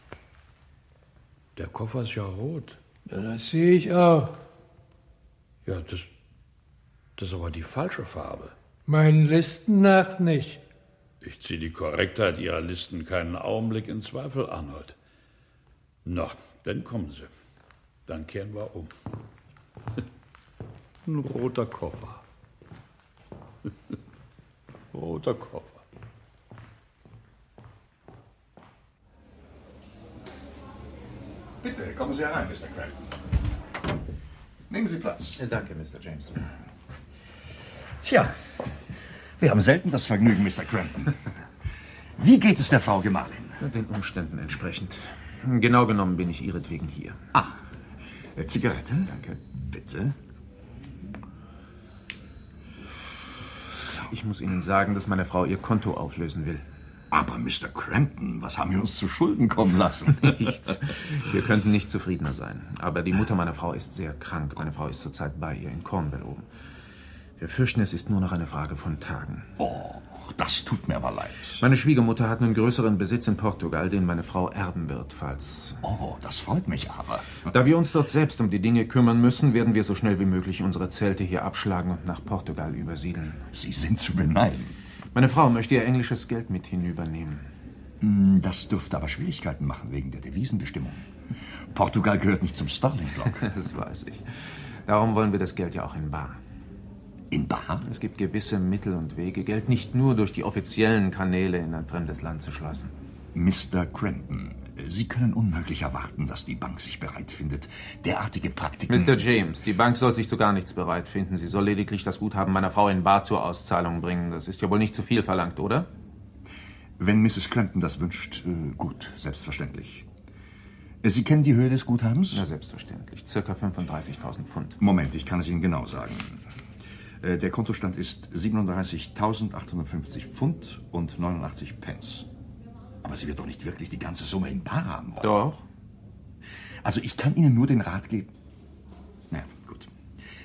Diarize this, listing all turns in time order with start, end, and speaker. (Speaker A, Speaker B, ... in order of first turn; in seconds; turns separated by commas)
Speaker A: 1.6-2.8, Speaker B: 3.1-4.3, Speaker A: 5.6-6.1, Speaker A: 7.2-8.5, Speaker B: 8.9-10.6, Speaker A: 11.2-15.0, Speaker A: 16.0-17.3, Speaker A: 18.1-18.9, Speaker A: 21.0-22.2, Speaker A: 24.9-25.8, Speaker C: 31.6-33.1, Speaker C: 34.7-35.4, Speaker D: 35.4-36.5, Speaker C: 38.0-38.4, Speaker C: 39.4-41.2, Speaker C: 42.2-43.6, Speaker D: 43.6-47.2, Speaker C: 48.4-50.1, Speaker D: 49.1-49.4, Speaker D: 53.7-56.6, Speaker C: 57.1-60.4, Speaker D: 60.2-66.5, Speaker D: 67.4-69.5, Speaker C: 69.6-71.6, Speaker D: 71.6-75.8, Speaker C: 75.8-77.5, Speaker D: 77.5-83.4, Speaker C: 83.5-84.7, Speaker D: 85.1-87.5, Speaker C: 88.0-91.1, Speaker C: 91.7-93.5, Speaker D: 93.4-94.3, Speaker D: 94.8-96.4, Speaker C: 97.3-97.8, Speaker D: 97.8-102.9, Speaker C: 103.3-109.2, Speaker D: 108.9-115.9, Speaker C: 117.0-120.0, Speaker C: 121.0-122.5, Speaker D: 122.3-124.8, Speaker C: 124.8-126.4, Speaker C: 127.2-132.3, Speaker C: 133.0-135.4, Speaker D: 135.2-135.6, Speaker C: 136.8-138.3, Speaker C: 139.3-139.9